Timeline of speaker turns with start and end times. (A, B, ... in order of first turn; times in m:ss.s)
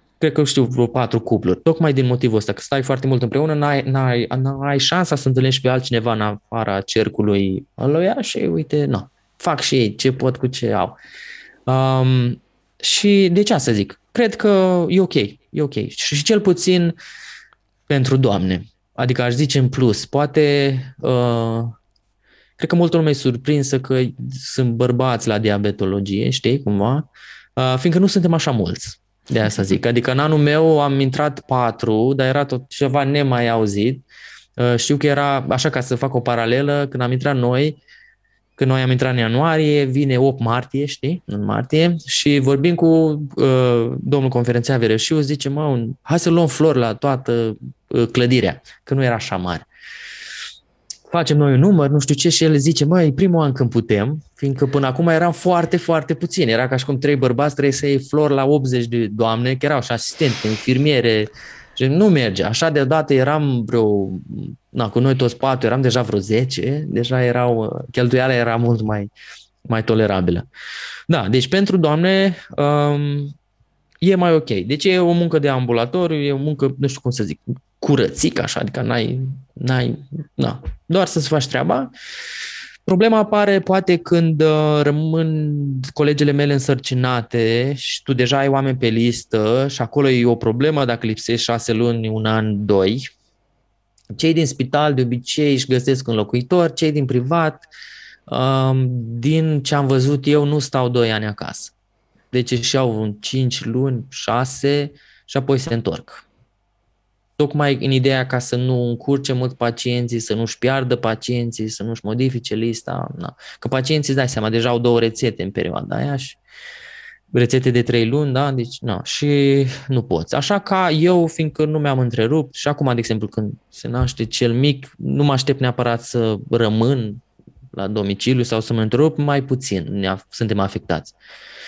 0:00.2-0:11.0 A
0:11.7-0:16.9 A
0:17.9-0:21.8 A
0:22.6-0:34.0 A
0:34.6-0:37.8 A
0:38.6-0:49.7 A
0:51.1-1:09.1 A
1:09.7-1:10.5 A
1:11.1-1:13.4 A
1:14.0-1:21.9 A
1:22.9-1:33.1 A
1:34.2-1:37.7 A
1:38.3-1:41.7 A
1:42.3-1:46.2 A
1:47.4-1:56.4 A
1:57.3-2:11.2 A